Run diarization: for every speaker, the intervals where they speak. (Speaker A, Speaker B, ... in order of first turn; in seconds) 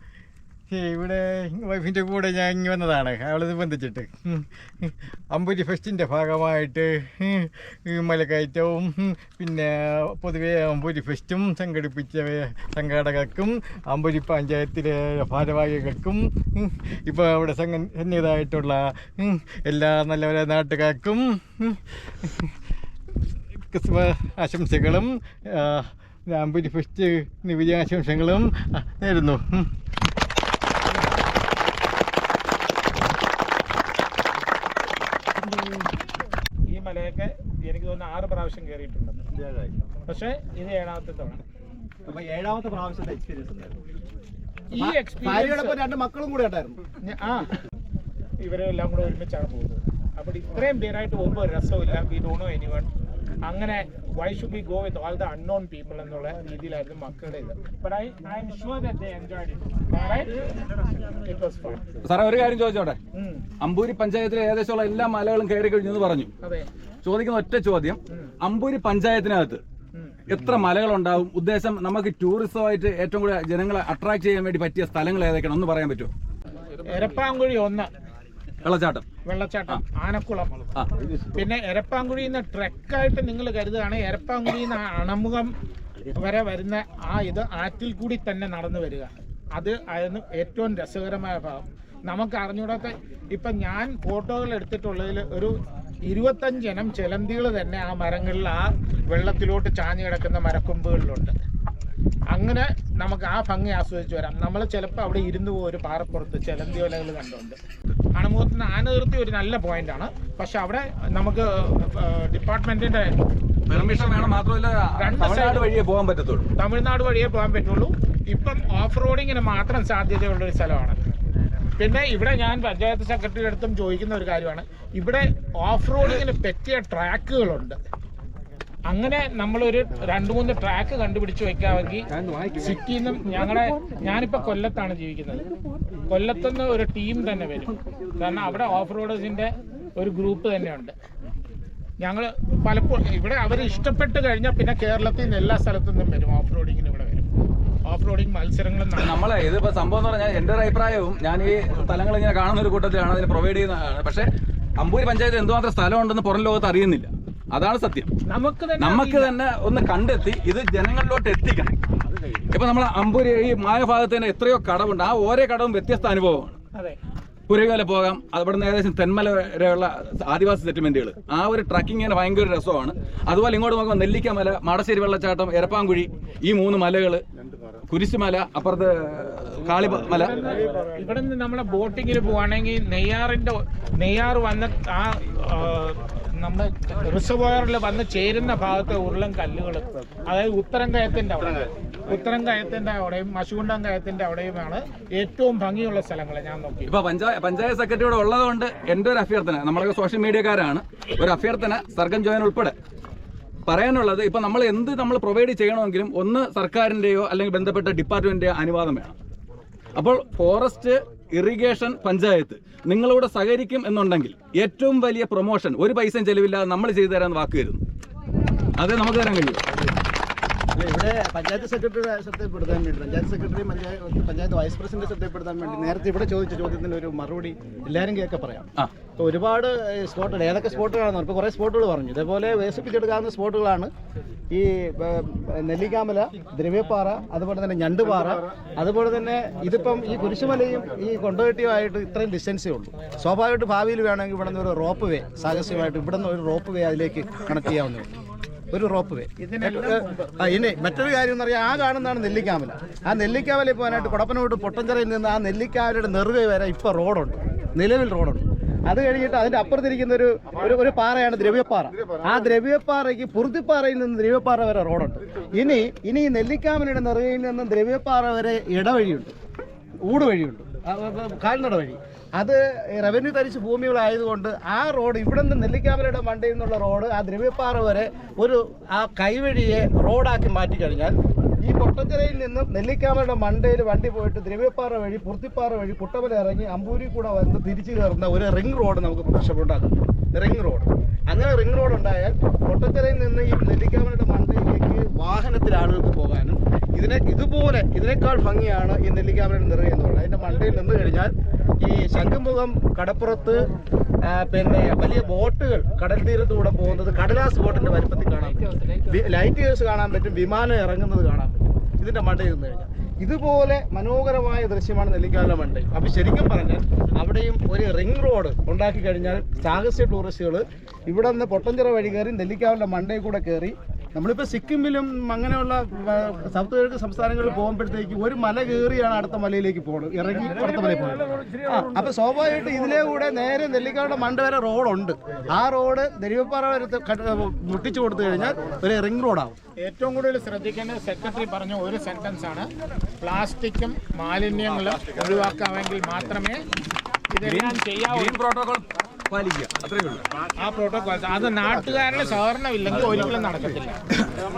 Speaker A: 0.7-22.5, 23.7-29.7
Speaker B: 36.7-39.2, 40.1-41.4, 44.7-45.8, 47.0-47.5, 48.4-52.9, 53.5-60.4, 61.2-61.8, 63.1-63.4, 66.4-66.7, 76.9-77.9, 79.2-80.5, 81.3-85.5, 86.1-95.5, 96.1-101.3, 102.3-107.6, 108.1-113.1, 113.7-114.3, 115.0-115.7, 116.6-121.0, 121.8-127.8, 128.9-135.4, 136.1-140.9, 142.0-147.2, 147.9-149.2, 158.3-159.3, 166.7-167.0, 180.1-196.9, 249.4-250.3, 339.8-342.7, 343.2-346.6, 347.3-348.4, 350.6-354.0
Speaker C: 39.4-39.7, 42.1-43.8
Speaker D: 44.8-46.8, 220.8-228.7, 229.2-233.9, 234.5-248.1, 248.7-269.3, 270.0-303.6, 304.2-339.6
Speaker E: 62.0-63.0, 63.6-66.3, 67.0-69.6, 70.3-76.1, 78.6-79.0, 80.8-81.2, 113.7-116.5, 149.0-154.2, 154.8-158.1, 158.8-161.8, 162.5-166.6, 167.5-177.2, 177.9-180.3, 196.9-202.7, 203.7-209.1, 210.0-217.8, 218.8-219.6, 347.4-350.2